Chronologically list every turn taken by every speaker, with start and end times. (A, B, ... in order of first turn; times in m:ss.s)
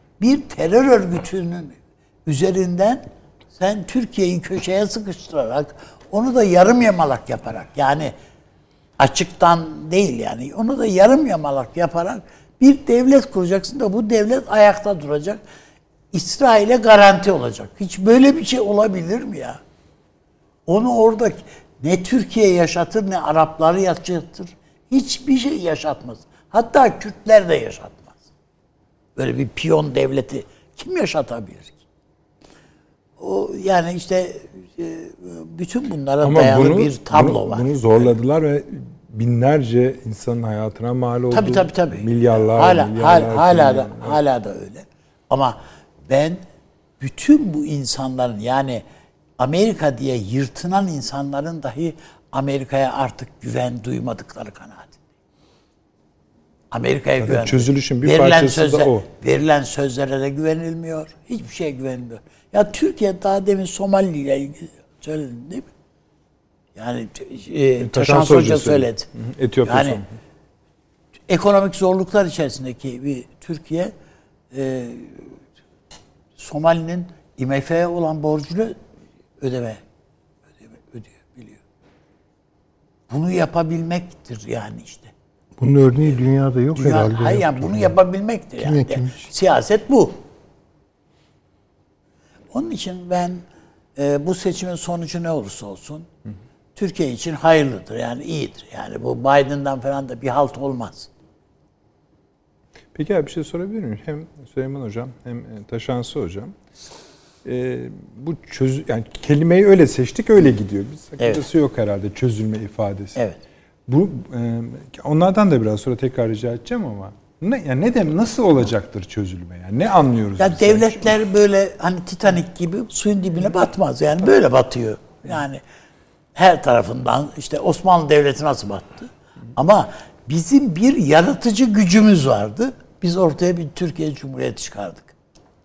0:00.2-0:08.1 A
0:09.0-0:15.4 A
0:16.1-0:19.6 A
0:20.7-0:28.2 A
0:29.2-0:31.8 A
0:33.2-0:38.2 A
0:36.2-0:44.2 B
0:41.3-0:46.4 A
0:47.0-0:48.8 A
0:49.4-0:55.0 A
0:56.7-1:05.7 A
0:57.2-0:59.0 B
1:06.8-1:09.1 A
1:07.8-1:10.1 B
1:09.6-1:10.0 A
1:11.3-1:13.9 A
1:14.5-1:15.4 A
1:16.4-1:18.8 A
1:19.4-1:19.8 A
1:20.6-1:21.6 A
1:23.1-1:25.1 A
1:25.6-1:28.0 C
1:26.7-1:30.2 A
1:28.6-1:29.3 C
1:32.5-1:33.4 A
1:34.0-1:36.1 A
1:36.8-1:41.1 A
1:42.9-1:46.5 B
1:47.4-1:53.2 B
1:53.9-2:01.2 B
2:00.4-2:05.6 A
2:06.4-2:15.1 A